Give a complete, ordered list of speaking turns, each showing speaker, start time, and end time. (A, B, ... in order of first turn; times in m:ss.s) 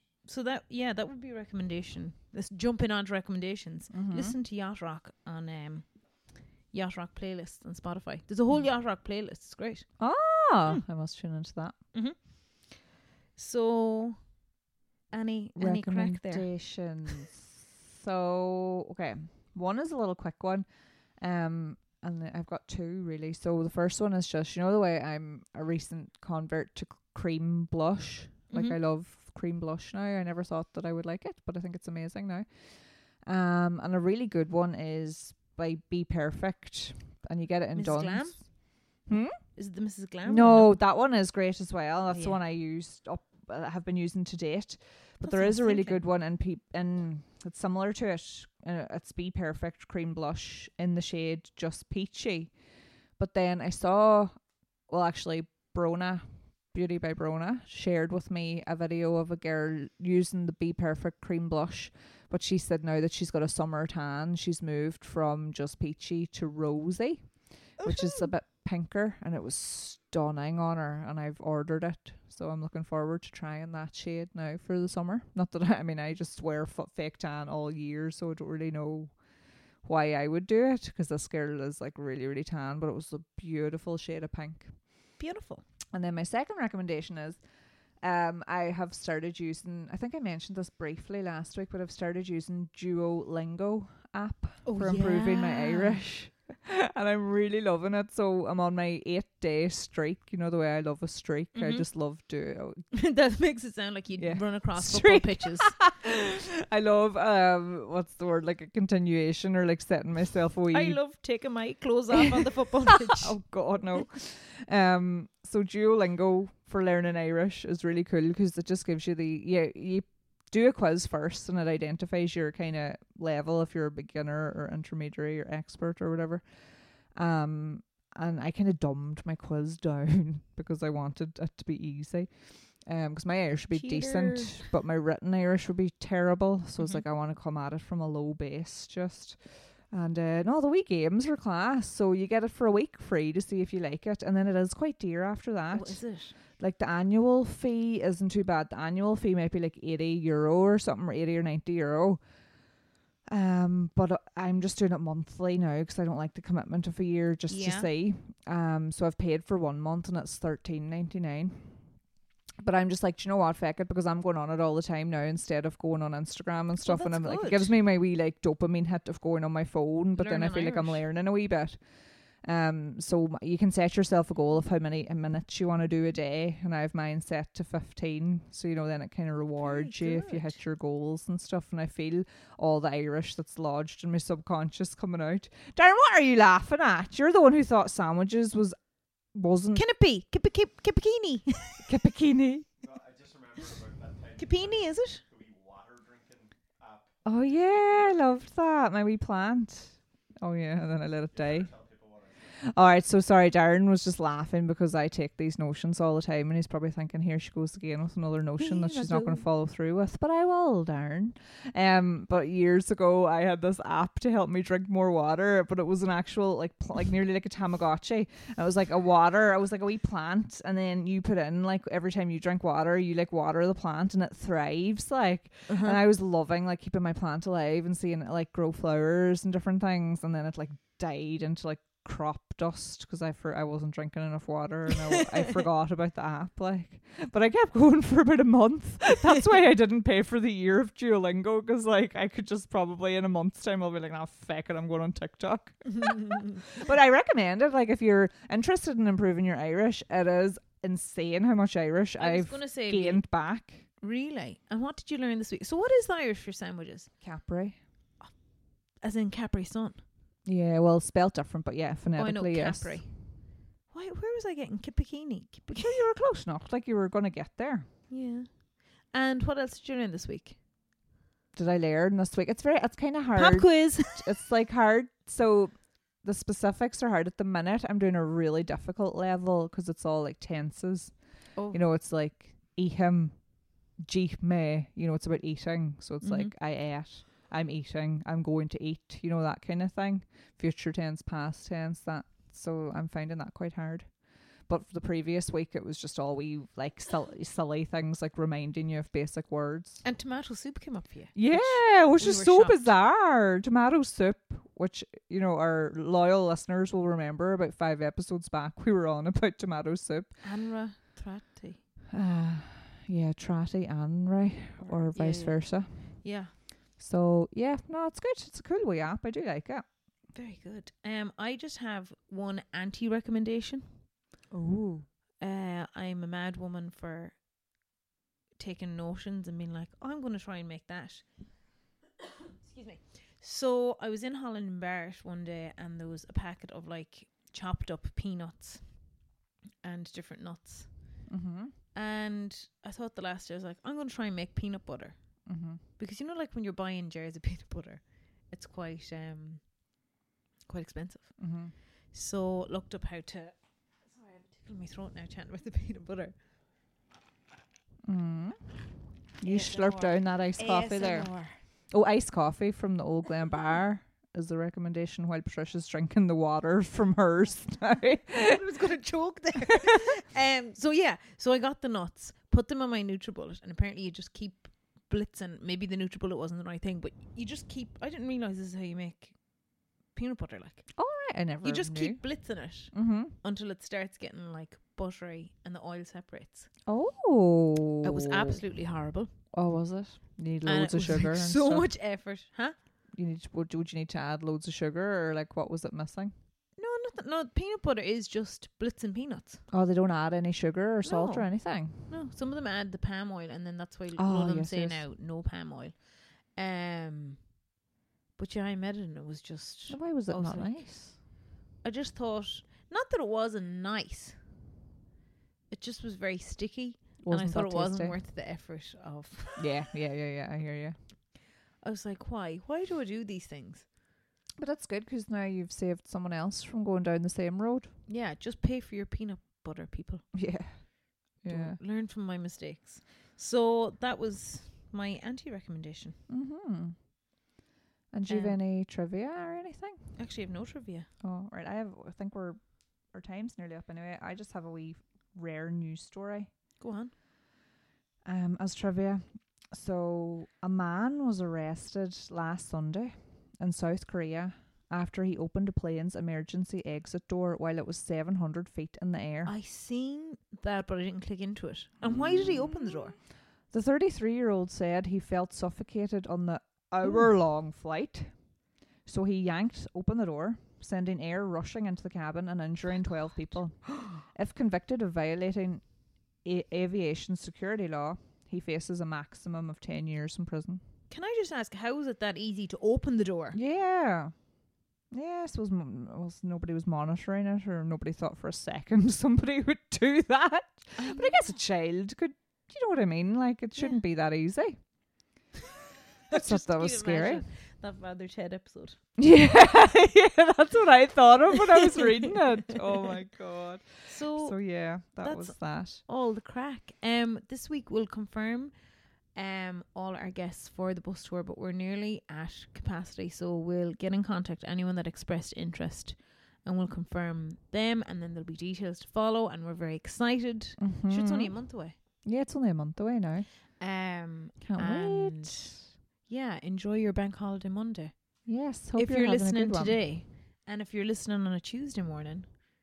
0:00.2-0:05.9 A
0:03.9-0:04.4 B
0:06.7-0:09.9 A
0:10.0-0:11.7 B
0:11.9-0:12.8 A
0:13.4-0:14.2 A
0:15.1-0:16.5 A
0:15.6-0:20.6 B
0:21.2-0:32.4 B
0:28.5-0:28.8 A
0:33.2-0:38.5 B
0:37.7-0:38.5 A
0:39.0-0:39.4 B
0:39.4-0:40.8 A
0:40.2-0:52.5 B
0:42.1-0:42.4 A
0:45.2-0:46.0 A
0:53.2-0:54.3 B
0:54.9-1:19.1 B
1:07.8-1:08.3 A
1:19.8-1:24.8 B
1:25.2-1:25.6 A
1:25.9-1:27.4 B
1:28.0-1:42.8 B
1:34.6-1:36.0 A
1:41.5-1:41.9 A
1:42.9-1:45.8 A
1:44.2-1:51.0 B
1:50.7-1:53.4 A
1:53.0-2:06.4 B
2:07.1-2:32.2 B
2:13.7-2:14.7 A
2:25.7-2:26.4 A
2:33.3-2:41.8 B
2:37.5-2:37.9 A
2:42.6-2:51.8 B
2:46.8-2:47.7 A
2:50.2-2:51.0 A
2:52.4-3:08.8 B
2:59.6-3:00.6 A
3:09.3-3:09.8 B
3:09.7-3:11.9 A
3:11.8-3:12.7 B
3:12.8-3:18.2 C
3:14.4-3:15.2 A
3:17.2-3:21.7 B
3:21.0-3:22.6 C
3:22.6-4:13.9 B
3:28.6-3:29.4 A
3:45.7-3:46.0 A
4:12.2-4:13.2 A
4:14.0-4:17.1 A
4:17.2-4:17.8 B
4:19.0-4:20.0 A
4:20.4-4:23.0 B
4:22.2-4:23.1 A
4:23.9-4:26.0 A
4:25.7-4:27.9 B
4:28.1-4:30.6 A
4:31.5-4:41.1 B
4:33.3-4:34.2 A
4:41.5-4:41.8 A
4:41.7-4:43.4 B
4:44.0-4:54.1 B
4:46.2-4:46.5 A
4:54.7-5:00.0 B
5:00.0-5:02.9 A
5:01.3-5:10.3 B
5:10.4-5:11.8 A
5:12.1-5:16.0 B
5:14.8-5:16.5 A
5:17.0-5:19.8 B
5:20.3-5:24.0 A
5:24.5-5:25.1 B
5:25.4-5:27.4 A
5:28.6-5:31.2 A
5:32.2-5:39.0 A
5:39.8-5:41.1 A
5:41.3-5:41.7 B
5:41.9-5:45.2 A
5:45.4-5:45.8 B
5:46.0-5:49.6 A
5:50.7-5:51.4 A
5:51.4-5:51.7 B
5:52.1-5:56.3 A
5:58.0-5:58.6 B
5:59.4-6:01.3 B
5:59.4-6:01.5 A
6:01.9-6:08.6 B
6:08.4-6:19.4 A
6:20.1-6:20.9 A
6:20.9-6:22.2 B
6:21.6-6:26.7 A
6:22.9-6:23.3 B
6:26.9-6:28.6 B
6:28.0-6:29.3 A
6:29.5-6:31.9 B
6:30.6-6:32.8 A
6:33.2-6:36.3 B
6:36.8-6:39.6 A
6:39.7-6:42.1 B
6:41.0-6:46.0 A
6:44.2-6:45.0 B
6:46.5-6:47.4 A
6:48.4-6:50.9 A
6:49.9-6:51.2 B
6:51.8-6:54.4 A
6:55.7-6:59.6 A
6:57.2-6:58.2 B
6:59.6-7:01.0 B
7:01.8-7:03.9 A
7:04.6-7:07.9 B
7:08.1-7:10.3 A
7:10.3-7:11.8 B
7:11.4-7:16.2 A
7:16.3-7:17.0 B
7:18.1-7:20.0 B
7:18.2-7:18.6 A
7:20.2-7:21.1 A
7:21.2-7:26.5 B
7:26.8-7:27.1 A
7:28.2-7:39.5 B
7:39.4-7:43.2 A
7:42.0-7:43.1 B
7:43.7-7:48.5 B
7:49.0-7:55.8 B
7:56.4-8:00.8 B
8:01.1-8:03.6 A
8:03.5-8:04.3 B
8:05.1-8:14.8 B
8:11.0-8:11.5 A
8:16.3-8:19.0 A
8:16.3-8:17.4 B
8:19.2-8:26.0 B
8:24.1-8:24.6 A
8:25.2-8:28.7 A
8:29.3-8:42.0 A
8:40.8-8:41.5 B
8:42.2-8:43.5 B
8:43.8-8:48.1 A
8:44.6-8:45.8 B
8:48.4-8:50.0 B
8:48.9-8:52.6 A